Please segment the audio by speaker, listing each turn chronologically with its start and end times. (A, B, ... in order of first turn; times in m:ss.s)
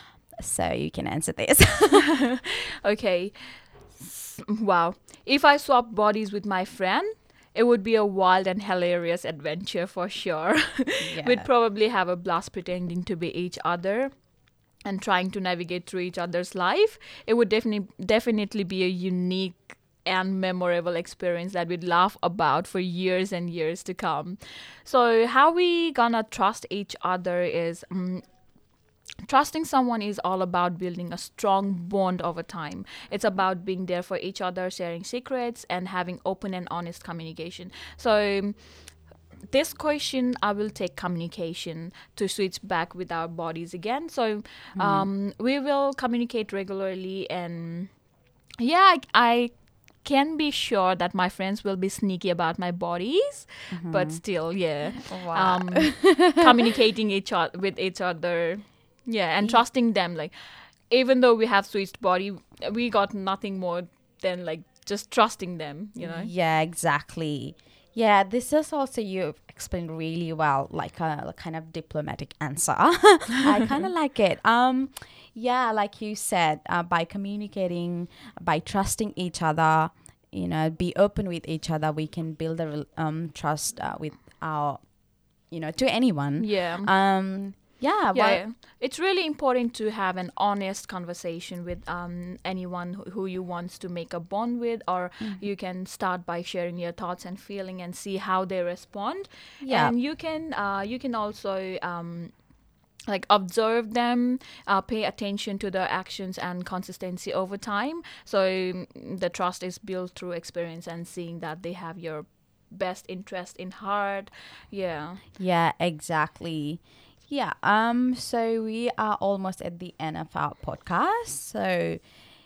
0:00.4-0:02.0 A
0:02.1-0:14.1 B
0:11.0-0:11.5 A
0:14.8-0:28.3 B
0:29.2-0:48.0 B
0:44.8-0:45.1 A
0:48.6-1:06.3 B
0:53.7-0:54.2 A
0:55.1-0:56.3 A
1:06.0-1:28.4 A
1:26.4-1:27.1 B
1:28.1-1:42.3 B
1:39.6-1:40.0 A
1:43.1-1:55.2 B
1:55.4-2:02.0 A